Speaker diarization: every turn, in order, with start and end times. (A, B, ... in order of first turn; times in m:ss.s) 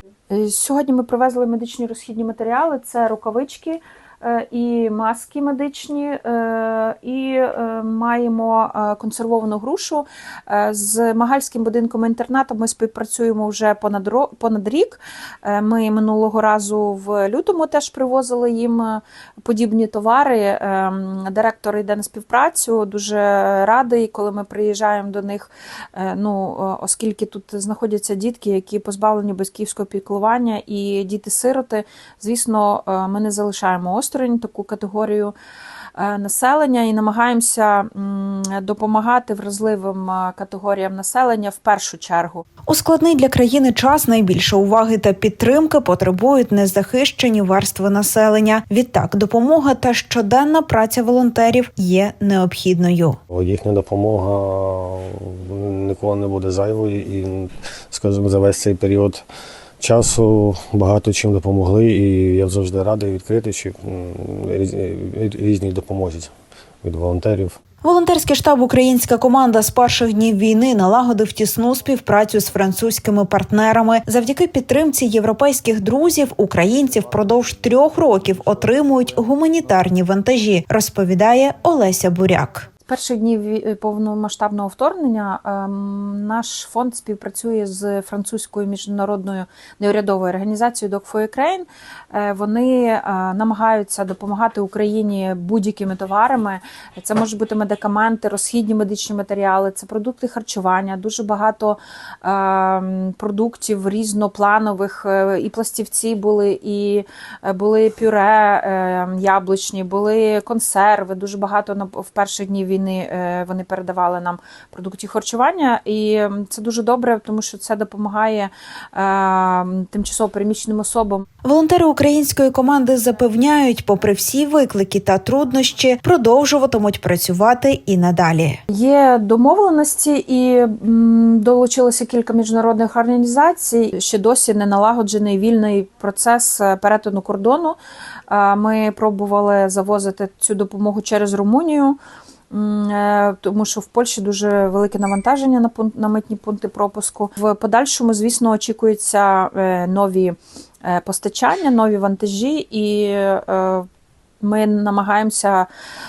0:00.3-0:35.3 A
0:36.0-0:42.4 A
0:42.7-0:53.2 B
0:53.3-0:59.2 C
0:59.8-1:06.3 C
1:06.8-1:07.6 C
1:07.8-1:22.7 B
1:22.9-2:01.2 A
2:01.4-2:08.6 B
2:08.7-2:17.8 A
2:18.3-2:22.0 A
2:22.5-2:33.9 A
2:34.4-2:35.7 A